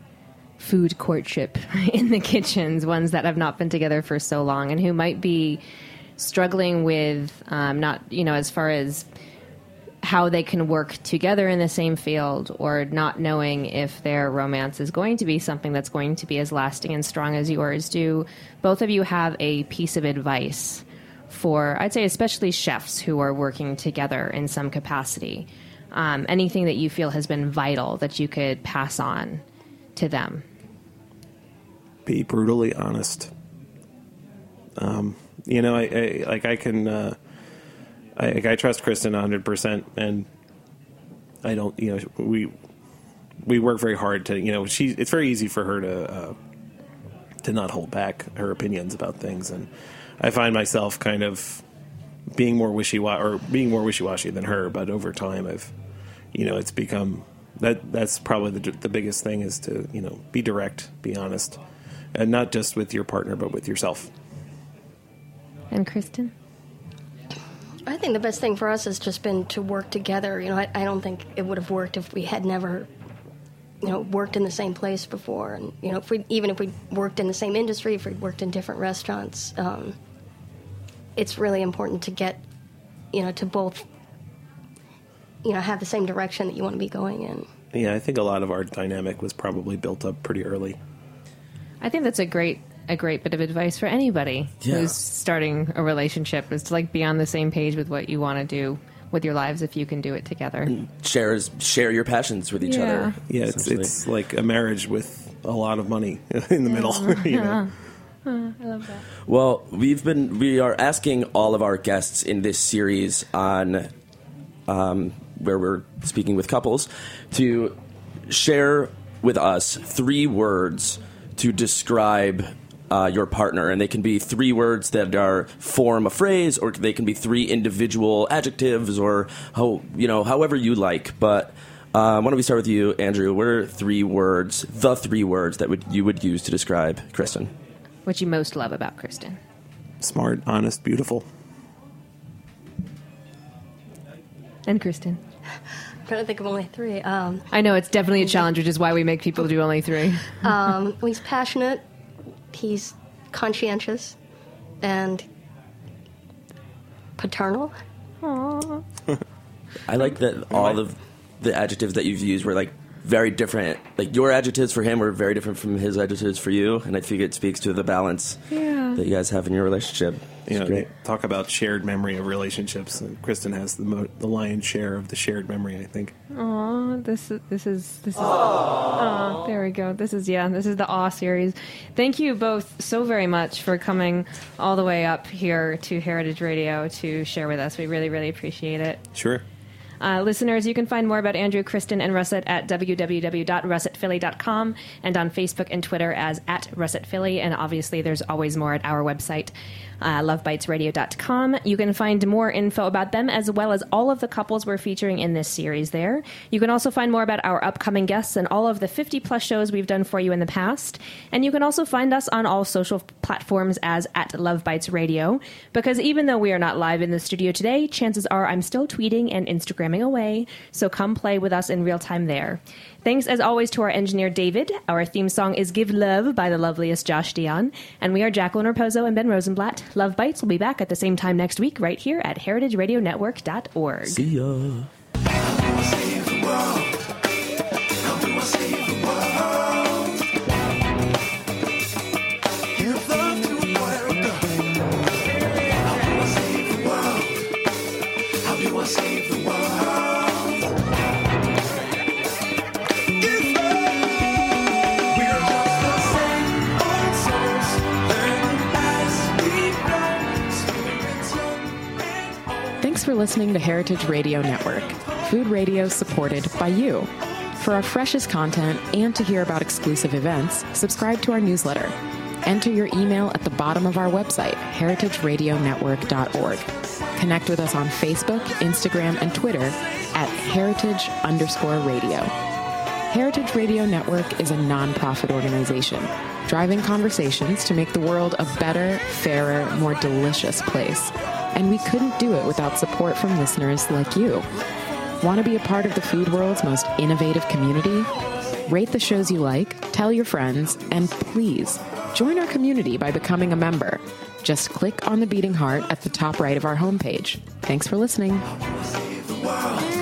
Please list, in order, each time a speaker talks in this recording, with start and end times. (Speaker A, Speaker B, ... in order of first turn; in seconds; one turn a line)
Speaker A: 0.6-5.6
Speaker A: 6.2-9.1
Speaker A: 10.0-29.4
Speaker A: 29.9-30.4
Speaker B: 32.0-33.3
Speaker B: 34.8-37.2
Speaker B: 38.2-40.3
Speaker B: 41.4-42.5
Speaker B: 43.4-46.4
Speaker B: 47.4-49.7
Speaker B: 50.2-51.6
Speaker B: 52.3-55.7
Speaker B: 56.3-61.6
Speaker B: 62.1-64.1
Speaker A: 65.7-66.3
Speaker C: 67.9-72.9
Speaker C: 73.8-80.0
Speaker C: 81.2-82.4
Speaker C: 83.1-83.8
Speaker C: 85.4-87.5
Speaker B: 87.7-90.8
Speaker A: 91.8-100.7
Speaker D: 94.6-94.9
Speaker D: 100.7-103.9
Speaker A: 102.6-103.1
Speaker B: 103.3-107.7
Speaker A: 106.7-107.7
Speaker A: 108.2-109.0
Speaker D: 109.3-113.9
Speaker D: 114.7-117.8
Speaker D: 118.3-137.5
Speaker A: 138.1-139.4
Speaker B: 140.0-141.2
Speaker A: 144.7-145.2
Speaker C: 146.1-147.5
Speaker A: 147.5-150.5
Speaker C: 150.4-151.8
Speaker C: 152.5-154.2
Speaker C: 154.8-155.2
Speaker C: 157.2-157.7
Speaker A: 158.2-158.8
Speaker D: 159.9-168.4
Speaker A: 168.5-169.0
Speaker D: 168.9-170.8
Speaker B: 170.5-176.1
Speaker A: 176.3-189.0
Speaker B: 189.1-189.4
Speaker A: 190.0-234.2
Speaker D: 234.1-234.9
Speaker E: 262.8-282.3
Speaker E: 283.1-294.5
Speaker E: 295.2-298.1
Speaker E: 298.6-308.5